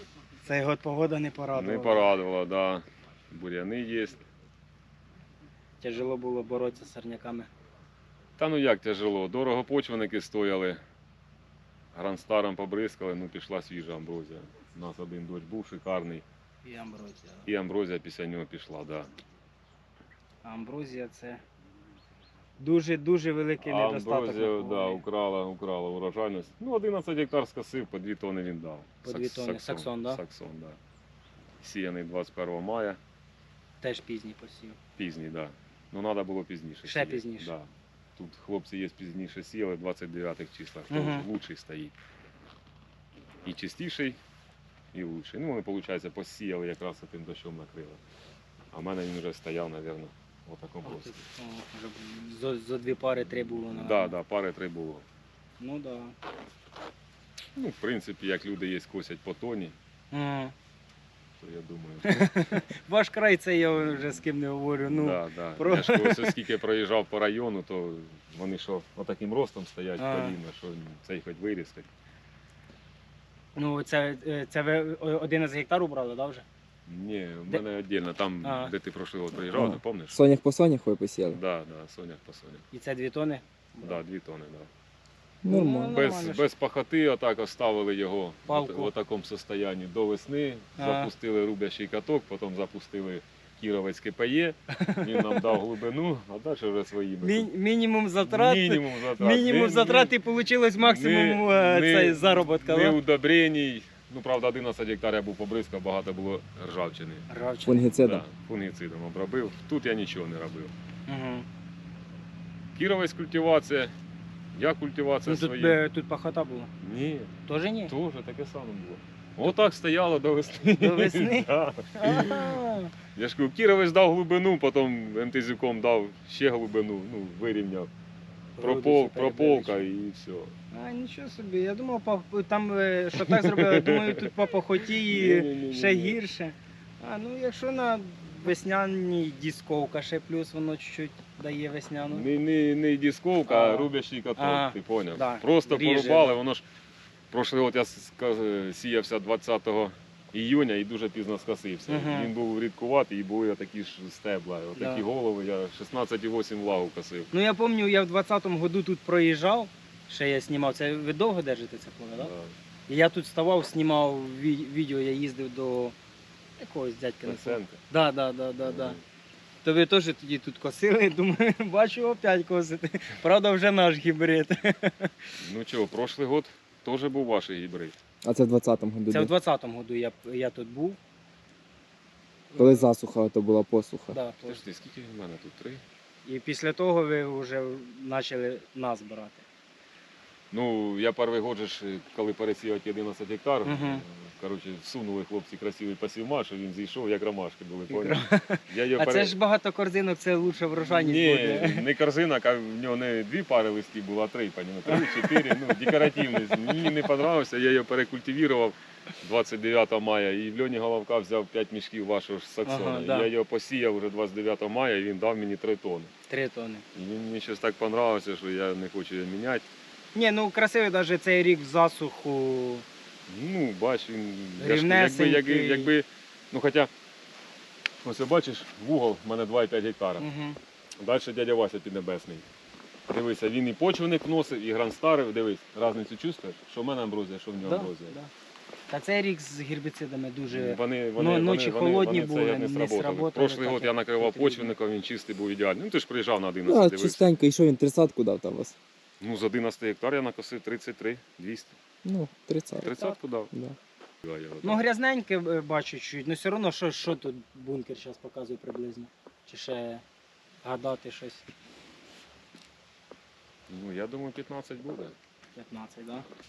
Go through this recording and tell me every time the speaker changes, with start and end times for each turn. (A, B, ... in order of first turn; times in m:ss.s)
0:00.4-0:02.1 A
0:01.5-0:04.2 B
0:05.8-0:07.5 A
0:08.4-0:10.8 B
0:11.9-0:16.2 B
0:16.6-0:17.5 A
0:17.4-0:19.1 B
0:20.4-0:21.4 A
0:22.6-0:25.0 A
0:23.6-0:30.8 B
0:29.0-0:30.2 A
0:31.6-0:33.0 B
0:33.8-0:34.8 A
0:35.0-0:41.9 B
0:36.8-0:37.5 A
0:40.9-0:41.2 A
0:43.4-0:44.2 B
0:44.9-0:48.0 B
0:48.7-0:51.2 B
0:50.8-0:54.1 A
0:53.7-0:55.0 B
0:55.6-0:56.1 A
0:57.6-0:59.7 B
1:00.1-1:00.5 A
1:01.4-1:02.3 B
1:02.0-1:06.3 A
1:04.9-1:11.9 B
1:10.0-1:10.4 A
1:13.6-1:16.4 A
1:16.9-1:20.2 B
1:18.4-1:18.7 A
1:19.5-1:21.4 C
1:21.2-1:22.6 B
1:22.7-1:24.0 A
1:23.8-1:24.7 B
1:25.4-1:25.9 C
1:25.4-1:26.5 A
1:25.9-1:37.5 B
1:28.5-1:28.9 A
1:30.8-1:31.1 A
1:34.8-1:35.4 A
1:37.2-1:43.0 A
1:38.2-1:40.1 B
1:40.8-1:47.2 B
1:47.3-1:47.9 A
1:47.6-1:48.2 C
1:47.9-1:50.7 B
1:51.1-1:51.5 A
1:52.8-1:53.9 B
1:54.5-1:55.8 B
1:55.2-1:56.7 A
1:56.8-1:57.3 B
1:57.5-1:57.9 A
1:57.9-2:02.6 B
2:00.8-2:02.9 A
2:03.1-2:07.9 B
2:08.6-2:09.8 A
2:08.6-2:10.5 B
2:10.7-2:22.3 A
2:13.2-2:14.2 B
2:15.0-2:16.2 B
2:22.1-2:26.6 B
2:23.5-2:26.4 A
2:27.3-2:37.3 B
2:31.9-2:32.3 A
2:34.8-2:35.0 A
2:37.3-2:42.3 A
2:42.2-2:42.5 B
2:42.9-2:45.9 A
2:46.6-2:49.0 A
2:47.2-2:47.8 B
2:48.6-2:49.0 B
2:49.6-2:55.1 A
2:55.4-2:58.0 B
2:58.2-2:59.3 C
2:59.1-3:01.0 A
3:02.5-3:02.9 A
3:02.6-3:04.2 C
3:04.1-3:04.6 A
3:04.4-3:05.8 B
3:06.2-3:09.4 A
3:10.5-3:19.3 B
3:13.6-3:14.0 A
3:17.9-3:21.8 A
3:20.9-3:36.1 B
3:24.9-3:25.9 A
3:32.6-3:33.3 A
3:36.3-3:36.8 A
3:36.9-3:39.6 B
3:40.1-3:42.8 A
3:43.3-3:46.9 B
3:44.6-3:45.9 A
3:48.0-3:50.2 B
3:50.2-3:50.6 A
3:51.0-3:52.4 B
3:53.1-3:58.2 B
3:57.6-3:58.3 A
3:58.9-4:04.7 A
4:00.4-4:07.4 B
4:06.7-4:08.8 C
4:09.2-4:11.8 B
4:12.0-4:13.8 C
4:12.8-4:13.5 B
4:14.2-4:14.8 B
4:14.6-4:20.0 A
4:20.6-4:21.4 A
4:23.7-4:25.1 B
4:25.5-4:26.2 A